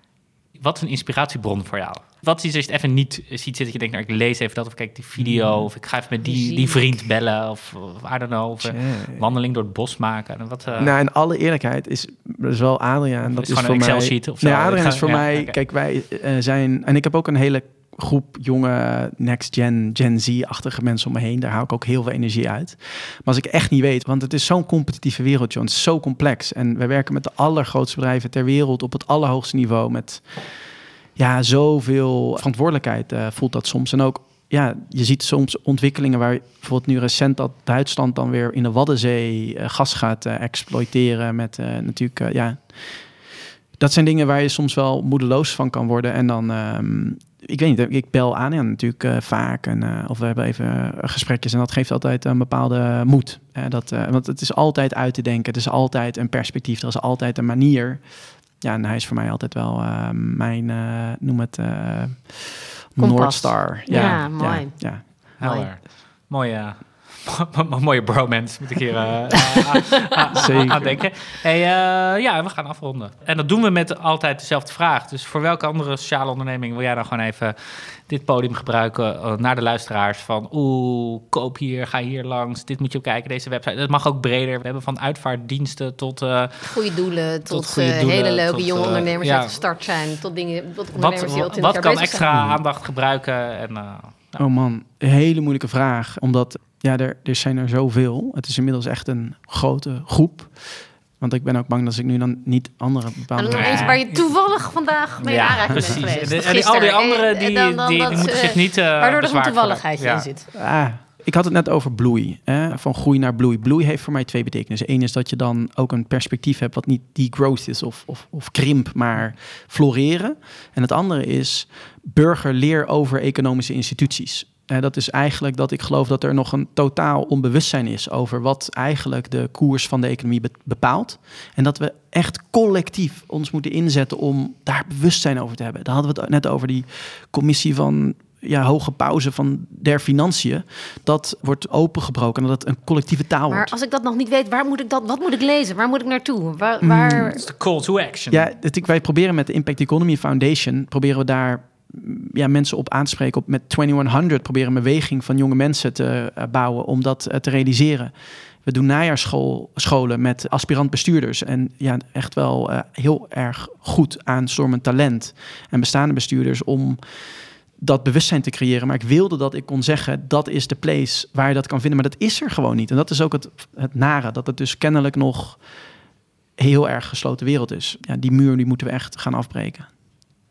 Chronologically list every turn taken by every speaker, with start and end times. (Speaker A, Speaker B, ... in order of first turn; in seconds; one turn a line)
Speaker A: 0.5-10.9
Speaker B: 5.2-5.7
Speaker C: 6.3-6.7
Speaker B: 8.6-9.2
Speaker B: 10.8-30.6
Speaker A: 13.2-15.6
Speaker B: 31.2-43.0
Speaker B: 43.8-65.1
Speaker C: 63.0-65.7
Speaker A: 63.9-64.7
Speaker A: 65.4-86.8
Speaker B: 70.3-71.0
Speaker C: 86.7-92.5
Speaker A: 87.5-89.7
Speaker A: 90.9-94.4
Speaker B: 94.4-104.0
Speaker C: 103.3-110.5
Speaker A: 103.5-104.3
Speaker A: 105.2-110.3
Speaker B: 105.8-106.0
Speaker B: 110.5-143.7
Speaker C: 143.5-147.4
Speaker B: 146.8-147.4
Speaker A: 147.3-148.5
Speaker B: 148.3-158.1
Speaker B: 158.6-167.0
Speaker B: 167.8-175.6
Speaker B: 176.6-179.9